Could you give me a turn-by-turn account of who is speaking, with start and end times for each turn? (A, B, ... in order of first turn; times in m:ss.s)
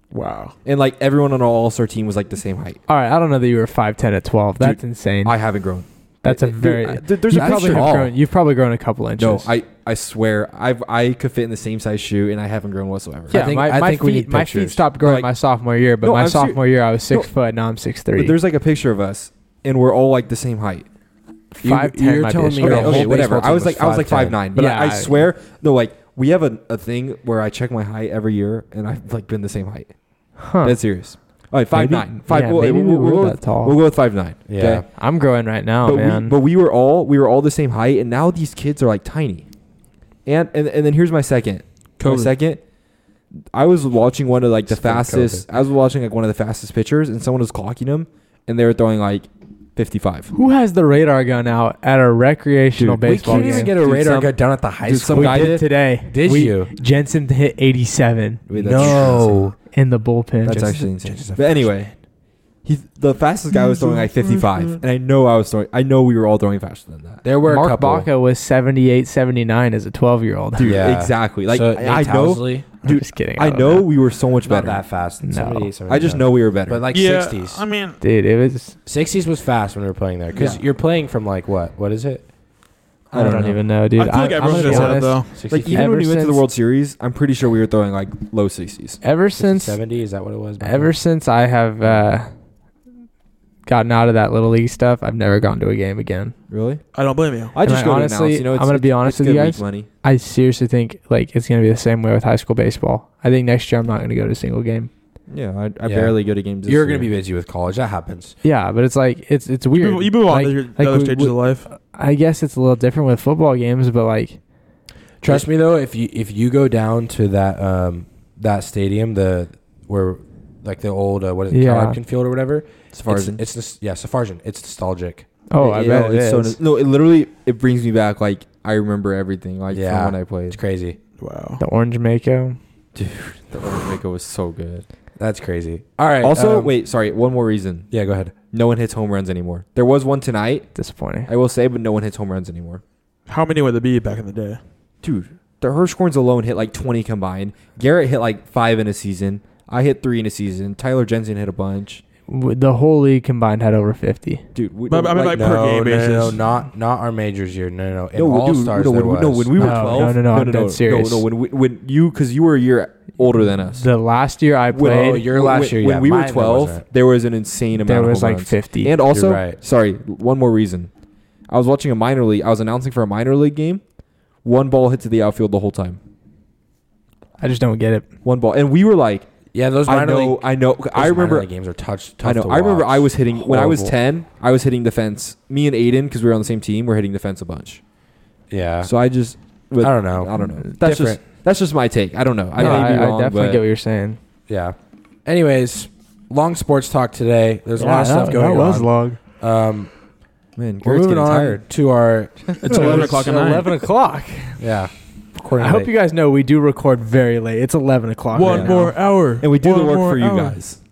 0:00.1-0:00.5 A
0:00.6-0:02.8 B
0:02.9-0:05.4 C
0:04.6-0:08.0 B
0:06.2-0:09.5 C
0:07.3-0:08.1 D
0:09.2-0:13.4 B
0:13.3-0:14.8 D
0:13.3-0:18.4 C
0:15.0-0:15.3 B
0:16.0-0:17.3 B
0:18.2-0:20.9 B
0:21.6-0:23.2 C
0:21.6-0:24.4 D
0:22.6-0:30.0 B
0:24.6-0:25.2 C
0:30.4-0:30.8 C
0:30.6-0:34.9 B
0:31.7-0:33.8 C
0:34.5-0:34.8 D
0:35.0-0:36.4 C
0:35.8-0:39.5 B
0:40.2-0:42.6 B
0:42.0-0:42.3 A
0:43.5-0:50.3 B
0:44.7-0:45.4 D
0:50.3-0:53.8 C
0:52.8-0:55.6 B
0:53.0-0:56.7 D
0:55.1-1:00.9 C
0:58.5-0:59.4 B
0:58.6-0:59.6 D
1:00.4-1:01.9 B
1:01.0-1:01.7 D
1:02.6-1:07.2 B
1:03.5-1:04.5 A
1:07.2-1:08.1 D
1:07.4-1:10.8 C
1:10.6-1:14.8 B
1:10.6-1:12.6 D
1:12.8-1:13.9 C
1:14.4-1:17.6 D
1:15.2-1:15.7 C
1:15.9-1:16.8 B
1:16.9-1:18.0 A
1:18.0-1:18.8 C
1:18.8-1:22.2 D
1:20.4-1:20.6 B
1:23.1-1:23.7 B
1:23.1-1:26.4 C
1:24.0-1:25.3 A
1:24.6-1:29.0 B
1:24.7-1:25.9 D
1:29.0-1:29.8 C
1:29.4-1:30.9 D
1:30.6-1:32.3 C
1:33.7-1:36.3 C
1:36.5-1:36.8 B
1:37.0-1:37.5 A
1:37.5-1:39.9 B
1:37.6-1:44.9 C
1:45.3-1:47.1 B
1:45.8-1:48.4 D
1:48.4-1:54.4 C
1:49.7-1:51.6 A
1:55.2-2:05.3 D
2:01.5-2:02.0 C
2:02.9-2:03.4 B
2:05.5-2:06.6 C
2:05.6-2:10.6 B
2:09.7-2:11.0 D
2:11.2-2:11.6 A
2:11.6-2:12.6 C
2:13.0-2:14.8 B
2:15.2-2:16.7 D
2:16.2-2:17.9 B
2:17.9-2:18.3 D
2:18.5-2:20.7 B
2:20.8-2:21.3 C
2:21.3-2:22.8 B
2:23.3-2:24.6 A
2:25.0-2:32.0 B
2:32.3-2:34.4 C
2:34.6-2:35.6 B
2:34.9-2:36.4 A
2:35.3-2:40.1 D
2:38.2-2:43.9 B
2:39.6-2:41.3 C
2:43.8-2:45.2 C
2:44.7-2:50.9 B
2:44.8-2:46.8 D
2:47.8-2:48.9 C
2:49.1-2:49.6 D
2:51.5-2:53.8 B
2:54.4-2:56.0 B
2:57.4-2:58.0 C
2:58.2-2:59.3 B
2:59.5-3:03.9 D
2:59.9-3:01.5 B
3:02.2-3:07.8 B
3:08.5-3:08.9 D
3:08.8-3:13.6 B
3:09.8-3:11.2 D
3:12.6-3:14.2 C
3:12.6-3:12.9 D
3:14.5-3:19.9 D
3:17.8-3:19.2 C
3:20.6-3:21.6 B
3:20.8-3:23.2 D
3:22.6-3:23.0 B
3:22.6-3:23.7 A
3:22.6-3:24.6 C
3:24.6-3:25.9 D
3:25.6-3:28.9 C
3:28.3-3:30.6 A
3:28.4-3:30.8 B